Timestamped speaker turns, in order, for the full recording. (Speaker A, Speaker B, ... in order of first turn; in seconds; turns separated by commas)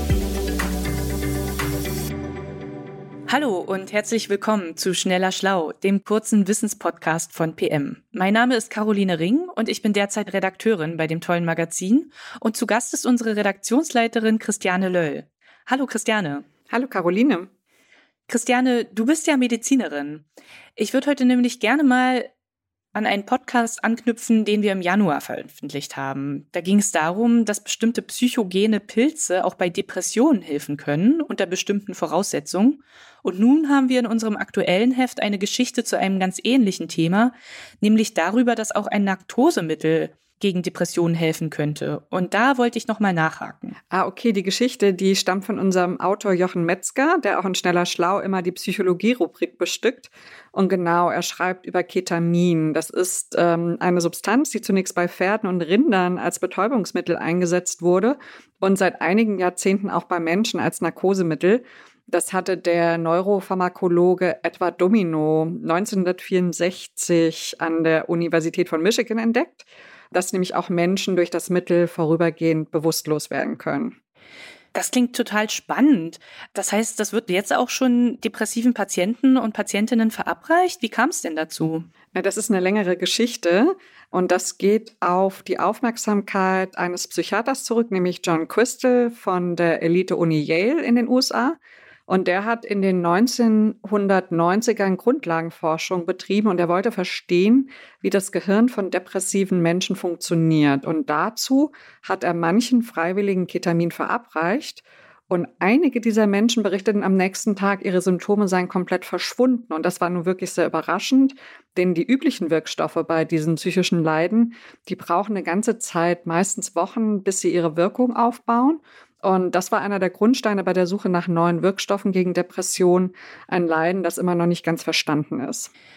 Speaker A: 3.3-16.4, Speaker B: 16.7-17.5, Speaker A: 18.3-22.3, Speaker A: 22.9-43.8, Speaker B: 43.9-74.0, Speaker A: 74.7-81.9, Speaker B: 82.1-125.7